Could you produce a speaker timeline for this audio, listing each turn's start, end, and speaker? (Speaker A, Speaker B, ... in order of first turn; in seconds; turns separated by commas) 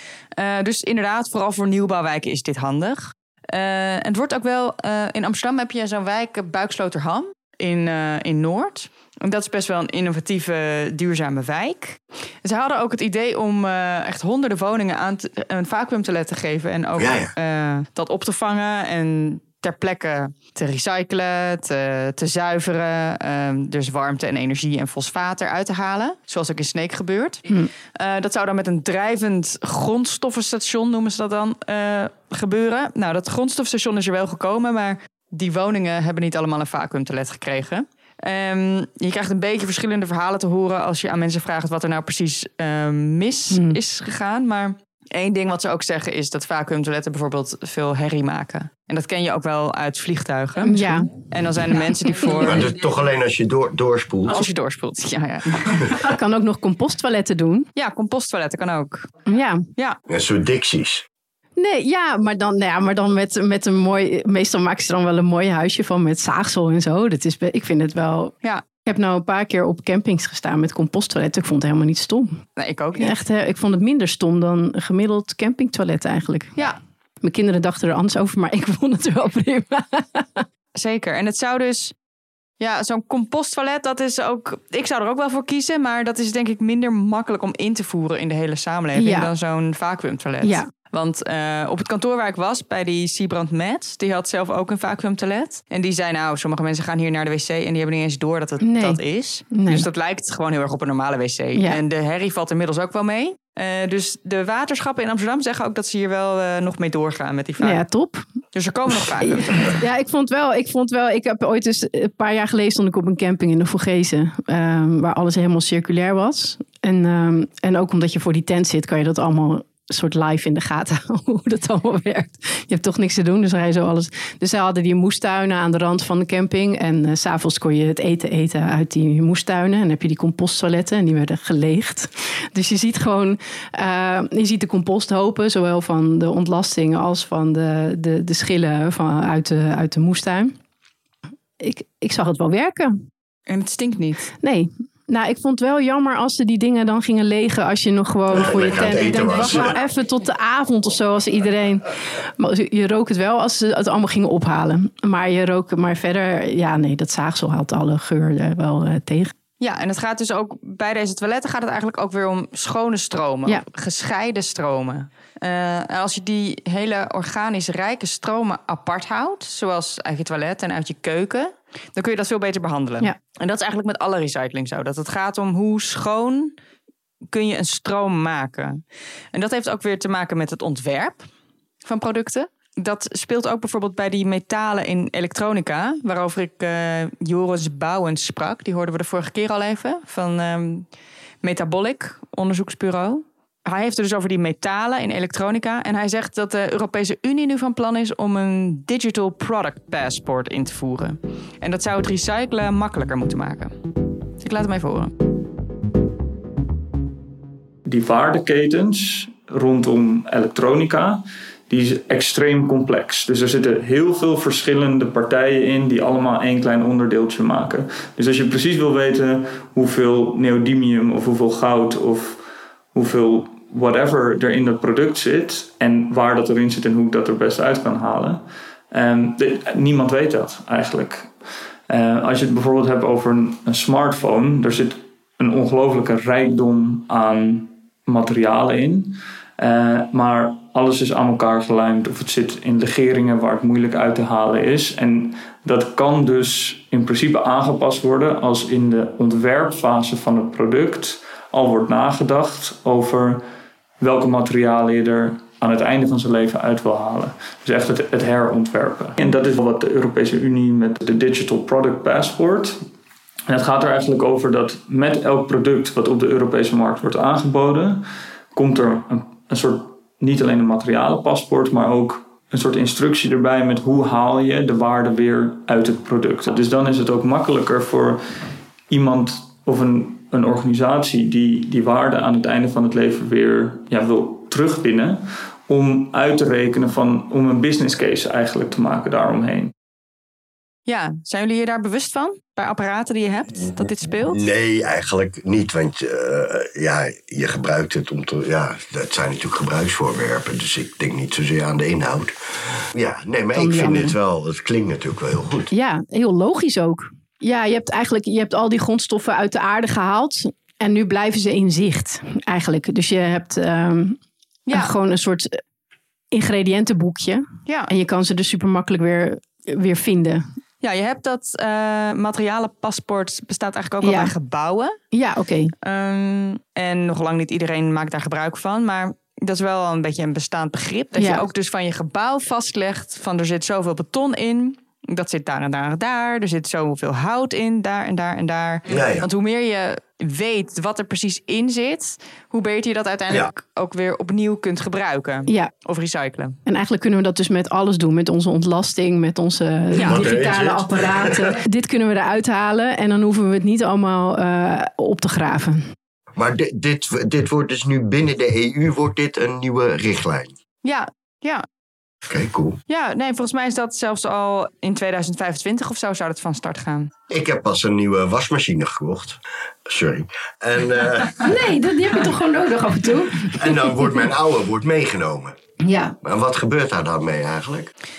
Speaker A: 0.4-52.7, Speaker B: 17.0-17.3, Speaker C: 43.5-43.8, Speaker C: 50.6-51.1, Speaker B: 52.3-54.5, Speaker A: 54.3-56.0, Speaker C: 56.0-57.7, Speaker A: 57.8-59.1, Speaker C: 59.3-59.6, Speaker B: 60.1-61.0, Speaker C: 61.6-72.4, Speaker A: 72.6-73.2, Speaker C: 73.0-76.6, Speaker C: 77.2-80.5, Speaker A: 80.8-82.0, Speaker A: 82.6-107.8, Speaker C: 89.0-89.3, Speaker C: 90.4-90.7, Speaker C: 98.6-99.9, Speaker C: 107.6-108.3, Speaker A: 108.5-109.8, Speaker C: 109.6-140.6, Speaker C: 141.6-143.1, Speaker A: 143.5-144.3, Speaker C: 144.4-159.3, Speaker B: 148.3-149.8, Speaker A: 159.6-176.6, Speaker A: 177.3-178.8, Speaker A: 179.3-181.3, Speaker A: 181.8-190.9, Speaker A: 191.4-203.8, Speaker A: 204.4-205.1, Speaker D: 207.9-231.3, Speaker D: 231.9-253.4, Speaker D: 254.0-262.8, Speaker D: 263.5-289.7, Speaker A: 290.9-294.4, Speaker B: 293.7-305.7, Speaker C: 303.6-304.1, Speaker C: 305.7-314.2, Speaker A: 314.7-314.9, Speaker C: 314.7-315.6, Speaker C: 316.3-320.5, Speaker A: 317.7-317.9, Speaker A: 320.8-325.0, Speaker C: 324.0-324.3, Speaker C: 325.1-325.7, Speaker A: 325.8-346.6, Speaker C: 331.2-331.5, Speaker B: 338.9-339.3, Speaker C: 346.7-355.9, Speaker A: 350.0-350.3, Speaker B: 350.0-351.6, Speaker B: 356.4-360.5, Speaker A: 360.8-361.6, Speaker B: 362.2-362.8, Speaker A: 362.9-367.1, Speaker B: 367.3-371.5, Speaker C: 371.4-374.2, Speaker B: 373.5-375.6, Speaker C: 375.8-376.1, Speaker B: 376.2-377.9